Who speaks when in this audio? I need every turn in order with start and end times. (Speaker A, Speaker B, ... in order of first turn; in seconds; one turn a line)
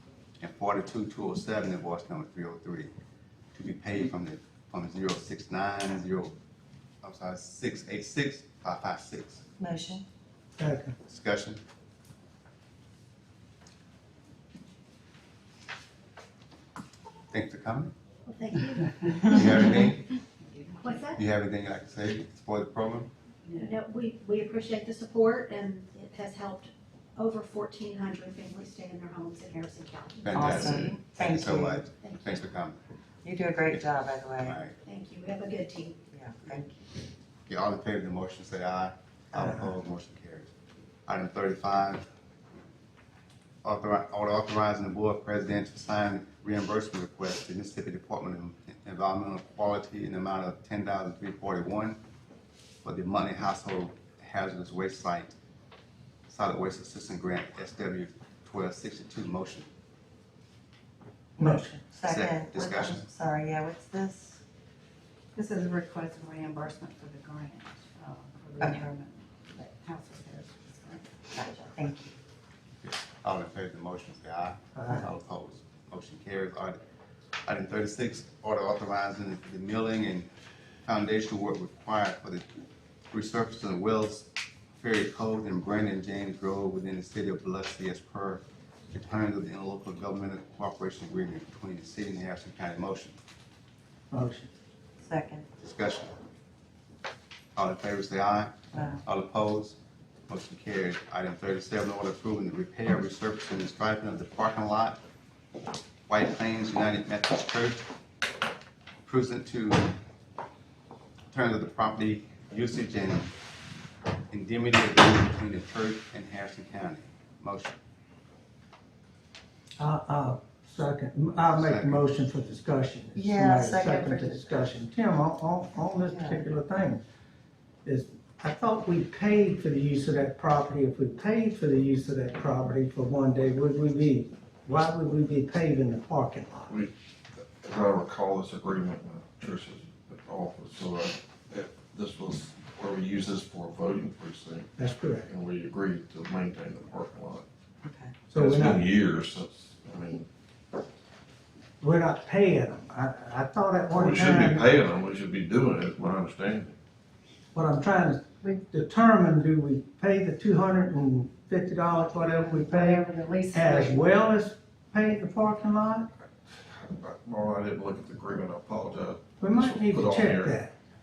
Speaker A: 0.4-2.9
Speaker A: 3.5-6.3
Speaker A: 7.0-9.4
Speaker B: 9.6-10.1
Speaker C: 10.6-11.0
Speaker A: 11.1-11.6
Speaker A: 17.3-17.9
Speaker D: 18.3-19.4
Speaker A: 19.3-20.1
Speaker E: 20.5-21.1
Speaker D: 20.8-21.2
Speaker A: 21.1-23.1
Speaker E: 23.5-23.8
Speaker D: 23.6-30.8
Speaker A: 30.2-32.8
Speaker B: 30.3-31.8
Speaker D: 32.0-32.5
Speaker B: 33.2-34.6
Speaker A: 34.4-34.8
Speaker D: 34.8-36.9
Speaker B: 36.1-36.7
Speaker A: 37.5-40.5
Speaker A: 41.1-42.1
Speaker A: 43.6-52.0
Speaker A: 52.8-55.3
Speaker A: 56.3-59.7
Speaker B: 61.4-64.4
Speaker C: 61.4-61.7
Speaker A: 62.0-63.1
Speaker E: 65.3-71.1
Speaker B: 68.6-69.0
Speaker B: 71.3-72.1
Speaker A: 72.8-76.8
Speaker C: 74.8-75.1
Speaker A: 77.5-80.3
Speaker A: 80.8-82.5
Speaker A: 83.1-93.2
Speaker C: 94.1-94.5
Speaker B: 95.0-95.5
Speaker A: 95.6-96.1
Speaker A: 97.6-105.0
Speaker B: 98.7-99.0
Speaker A: 106.1-107.8
Speaker A: 109.0-110.0
Speaker A: 111.3-113.3
Speaker A: 114.3-117.8
Speaker C: 119.8-127.0
Speaker A: 121.6-122.0
Speaker B: 123.2-124.5
Speaker B: 126.0-126.4
Speaker C: 127.8-136.7
Speaker F: 136.7-144.7
Speaker C: 144.8-145.3
Speaker F: 145.2-147.5
Speaker B: 147.8-148.1
Speaker C: 148.3-148.8
Speaker F: 148.3-150.3
Speaker C: 151.8-154.7
Speaker F: 153.9-156.8
Speaker C: 157.5-166.1
Speaker E: 162.2-164.0
Speaker F: 166.7-170.6
Speaker C: 169.4-170.7